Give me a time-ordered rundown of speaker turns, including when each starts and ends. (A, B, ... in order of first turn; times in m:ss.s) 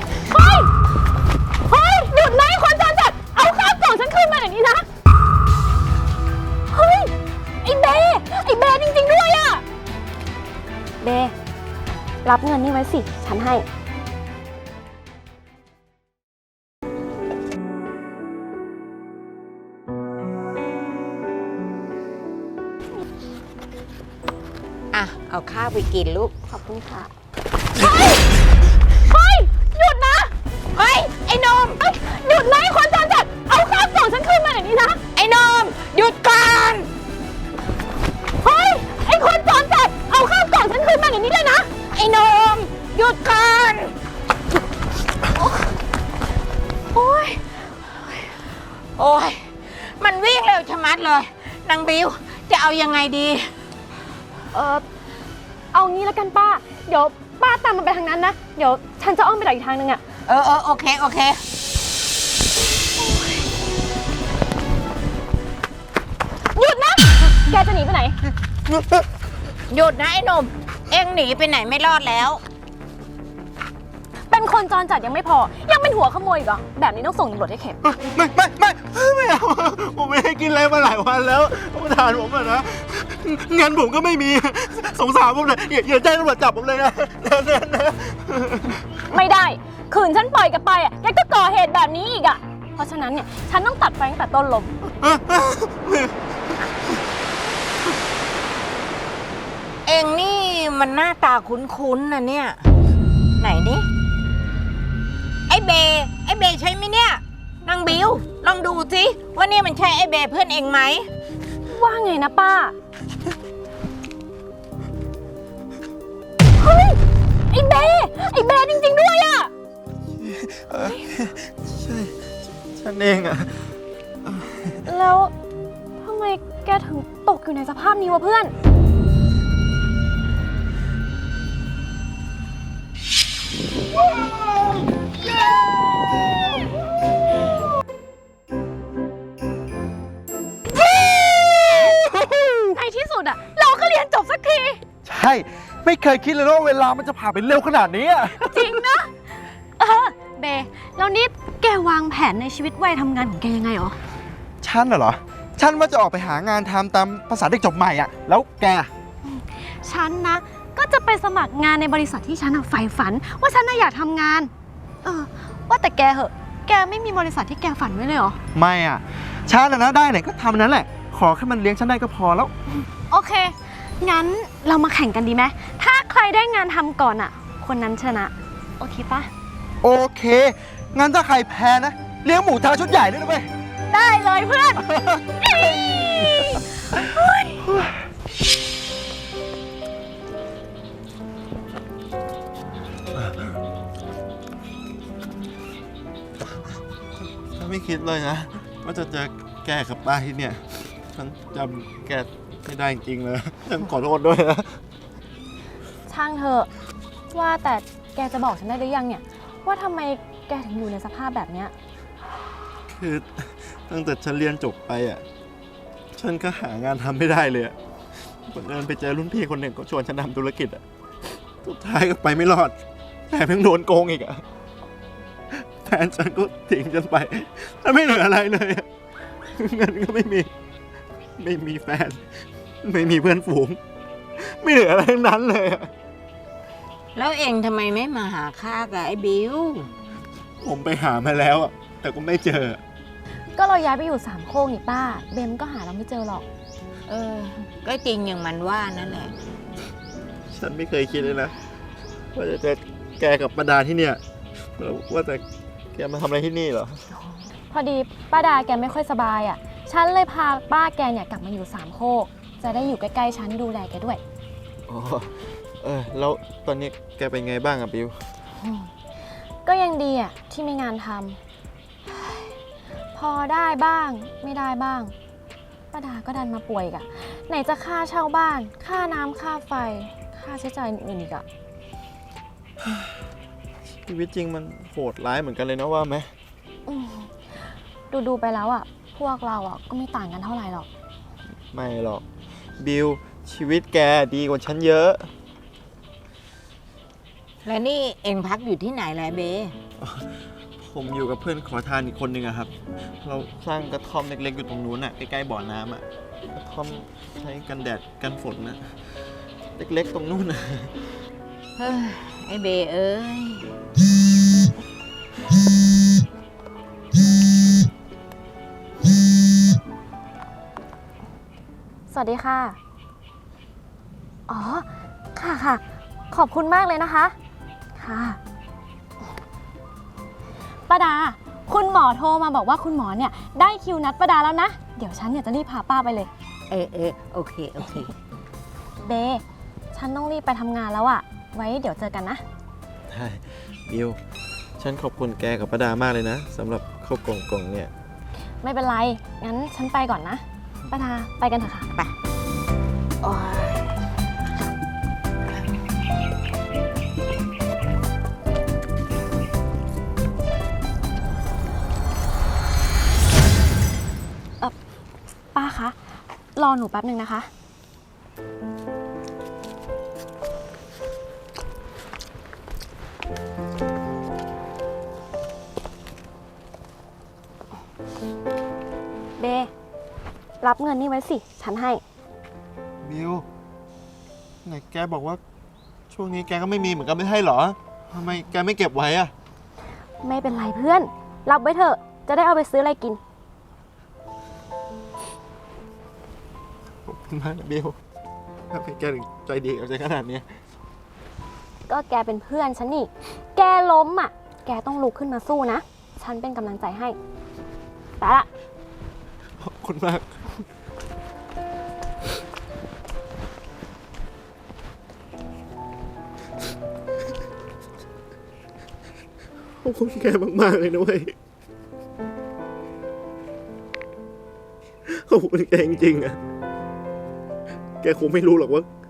0:00.3-0:00.7 A
0:01.7-0:04.8 A
0:06.7-0:07.1 A
0:07.6-0:09.6 A
0:11.0-0:11.3 A
0:12.2-0:13.6 A
0:24.9-0:26.3 B
0:26.5-0:27.1 A
0:27.8-0:28.2 A
0:28.9-0:30.3 A
0:30.7-0:31.8 B
0:31.8-0:35.0 A
0:35.2-0:36.9 B
0:38.4-0:41.7 A
0:41.9-0:43.9 B
0:46.9-0:47.4 A
0:49.0-0:53.5 B
0:54.5-0:54.8 A
0:55.7-1:00.0 A
1:00.3-1:01.4 B
1:03.0-1:03.4 A
1:06.5-1:08.2 A
1:09.7-1:12.4 B
1:14.3-1:17.8 A
1:17.8-1:28.8 C
1:29.0-1:34.7 A
1:35.0-1:36.0 C
1:39.8-1:42.6 B
1:43.4-1:43.9 B
1:45.5-1:51.1 B
1:51.7-1:52.7 A
1:56.6-1:57.0 A
1:57.5-1:59.5 A
2:00.2-2:04.8 C
2:04.9-2:05.3 A
2:06.0-2:08.5 A
2:21.9-2:22.8 C
2:22.7-2:24.8 A
2:25.0-2:28.8 C
2:28.2-2:29.1 A
2:29.8-2:34.0 A
2:34.6-2:38.9 C
2:39.2-2:44.5 A
2:45.0-2:48.4 A
2:48.5-2:52.5 C
2:53.1-2:59.3 A
2:59.8-3:03.5 C
3:03.9-3:04.9 A
3:04.8-3:05.9 C
3:05.4-3:07.6 A
3:07.6-3:07.9 C
3:17.5-3:24.8 C
3:26.1-3:26.7 A
3:27.3-3:31.7 A
3:32.9-3:35.2 C
3:36.2-3:37.8 C
3:38.5-3:40.8 C
3:41.6-3:42.8 C
3:43.3-3:44.4 C
3:45.5-3:48.9 C
3:49.5-3:50.5 C
3:51.4-3:52.3 C
3:52.8-3:53.8 C
3:54.4-3:55.9 C
3:57.2-3:59.9 B
4:00.6-4:02.8 C
4:03.6-4:06.4 A
4:07.1-4:09.3 B
4:10.5-4:11.5 C
4:12.3-4:14.2 C
4:14.8-4:17.0 C
4:17.7-4:24.2 A
4:24.9-4:28.2 C
4:28.6-4:28.9 A
4:29.6-4:31.4 A
4:32.1-4:32.5 A
4:33.1-4:35.1 A
4:35.9-4:41.4 A
4:44.0-4:46.3 C
4:46.8-4:47.3 A
4:48.1-4:50.9 A
4:51.7-4:52.2 C
4:52.8-4:55.3 C
4:57.6-4:59.8 B
5:00.0-5:08.9 C
5:09.8-5:10.9 C
5:11.8-5:13.7 B
5:22.1-5:22.8 A
5:24.5-5:27.3 A
5:28.0-5:28.4 A
5:30.9-5:36.3 A
5:36.7-5:38.1 B
5:39.0-5:42.4 A
5:43.1-5:44.2 C
5:44.8-5:47.9 C
5:48.6-5:51.9 A
5:53.2-5:53.8 B
6:05.5-6:06.0 A
6:06.6-6:07.5 A
6:19.4-6:19.7 A
6:20.6-6:22.0 A
6:23.0-6:23.4 C
6:24.6-6:25.4 C
6:26.1-6:29.3 C
6:30.2-6:33.2 A
6:37.1-6:38.0 C
6:38.7-6:40.5 C
6:41.9-6:47.2 A
6:48.2-6:48.5 A
6:49.6-6:50.4 C
6:59.8-7:01.3 C
7:05.1-7:06.4 C
7:08.0-7:08.9 C